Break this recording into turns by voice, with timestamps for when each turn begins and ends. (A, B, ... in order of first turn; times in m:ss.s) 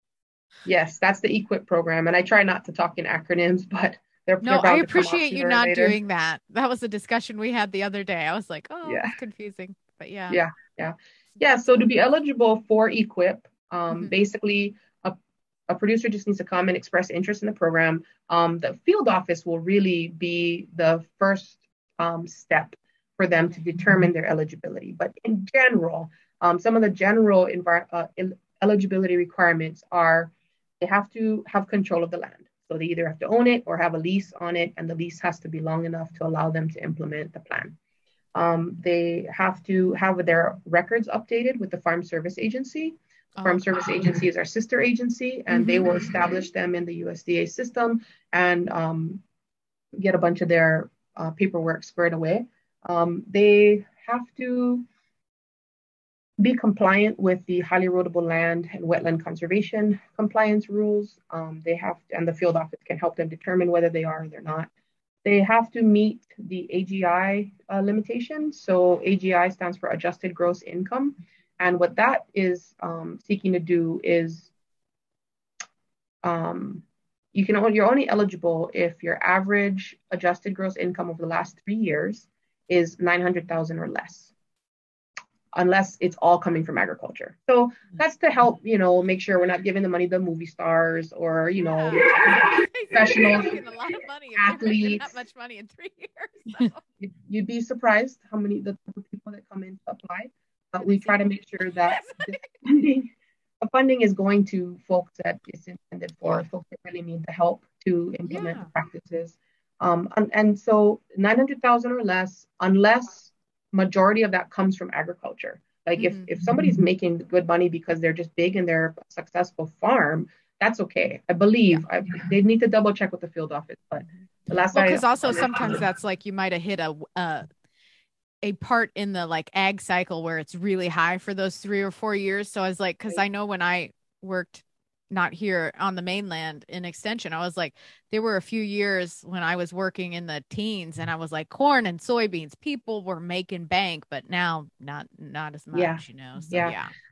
0:00.6-0:06.0 A
0:04.4-0:10.4 B
0:08.8-0:09.1 A
0:10.3-0:37.8 A
0:38.4-0:49.2 A
0:43.4-0:43.7 B
0:50.0-0:54.8 A
0:56.4-1:04.7 A
1:05.2-1:14.5 A
1:16.2-1:24.3 A
1:25.6-1:33.6 A
1:31.6-1:36.8 B
1:34.4-1:35.2 A
1:37.0-2:05.8 A
1:40.8-1:41.3 B
1:41.8-1:42.4 B
1:48.3-1:48.7 B
1:56.0-1:56.3 B
2:04.7-2:07.5 B
2:08.4-2:26.9 B
2:25.7-2:26.8 A